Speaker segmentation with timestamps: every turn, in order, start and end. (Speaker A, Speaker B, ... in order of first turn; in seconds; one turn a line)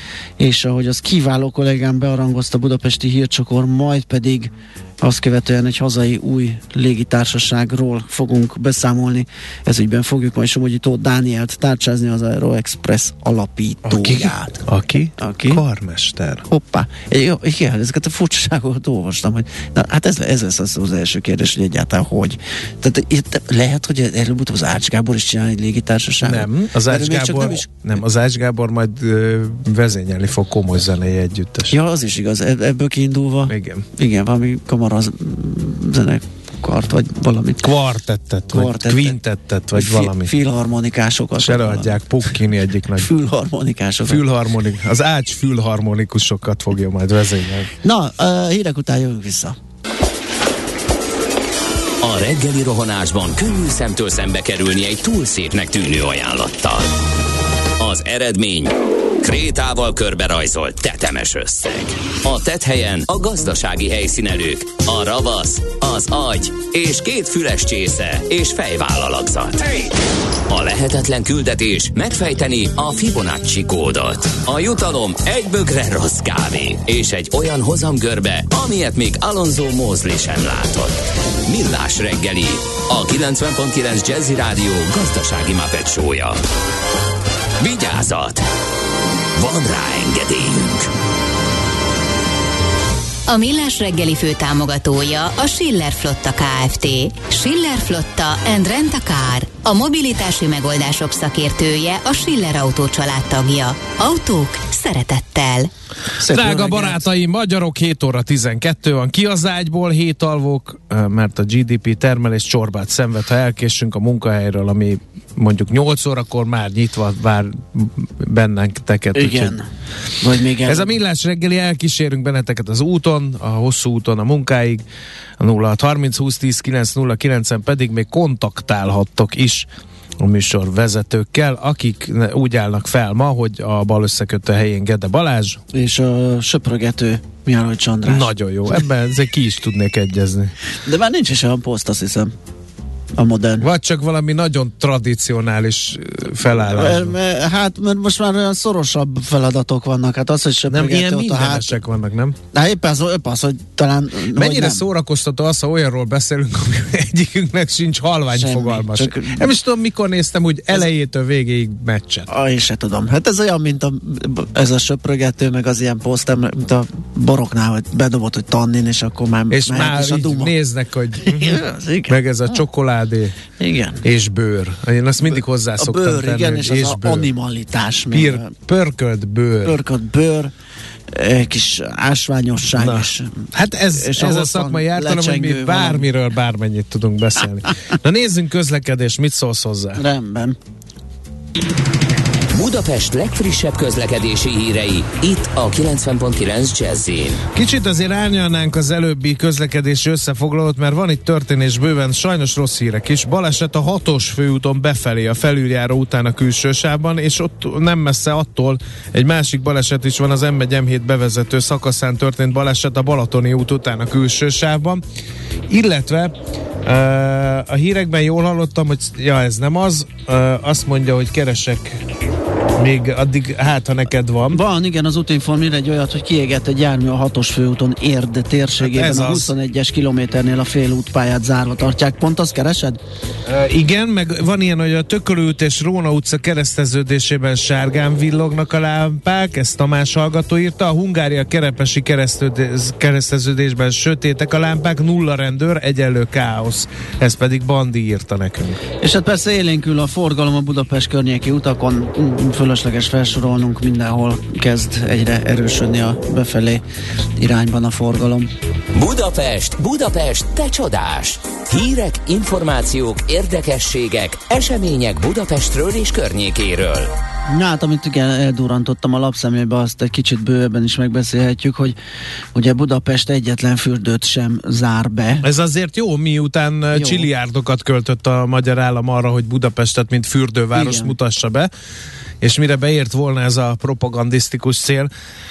Speaker A: 0.4-14.6
Speaker B: 13.8-16.4
Speaker A: 15.2-15.6
Speaker A: 16.5-27.7
Speaker B: 26.2-31.8
Speaker A: 31.7-37.7
Speaker B: 33.5-33.9
Speaker B: 37.6-40.3
Speaker A: 38.5-39.2
Speaker A: 39.7-42.3
Speaker B: 41.4-43.1
Speaker A: 43.0-44.2
Speaker B: 44.0-47.7
Speaker A: 47.8-49.5
Speaker C: 52.0-56.9
Speaker C: 57.8-70.0
Speaker C: 70.5-86.4
Speaker C: 87.6-88.5
Speaker C: 89.4-90.9
Speaker D: 93.3-105.7
Speaker A: 106.2-107.0
Speaker B: 106.3-119.5
Speaker A: 119.1-119.7
Speaker A: 120.2-120.9
Speaker B: 120.7-124.8
Speaker B: 125.4-129.7
Speaker B: 130.2-135.6
Speaker A: 135.7-138.3
Speaker B: 138.1-140.5
Speaker A: 140.8-142.3
Speaker A: 143.2-143.7
Speaker B: 143.6-147.2
Speaker A: 146.4-151.8
Speaker B: 150.7-152.4
Speaker A: 152.5-154.8
Speaker B: 154.3-162.3
Speaker A: 158.3-159.5
Speaker A: 162.3-170.5
Speaker B: 169.5-173.3
Speaker A: 171.2-172.6
Speaker A: 173.6-174.0
Speaker B: 174.0-177.3
Speaker A: 175.8-178.5
Speaker B: 178.1-179.8
Speaker A: 179.6-180.5
Speaker A: 181.1-186.1
Speaker B: 182.7-190.0
Speaker A: 190.0-190.6
Speaker C: 192.5-197.4
Speaker B: 197.5-215.0
Speaker B: 215.7-222.0
Speaker B: 222.8-224.6
Speaker A: 224.5-233.0
Speaker B: 228.8-229.5
Speaker B: 233.4-248.8
Speaker A: 249.0-256.8
Speaker A: 257.4-258.5
Speaker C: 258.9-267.1
Speaker A: 267.5-271.9
Speaker A: 272.5-275.4
Speaker B: 275.4-281.7
Speaker A: 276.9-277.3
Speaker A: 280.7-281.1
Speaker B: 282.4-285.1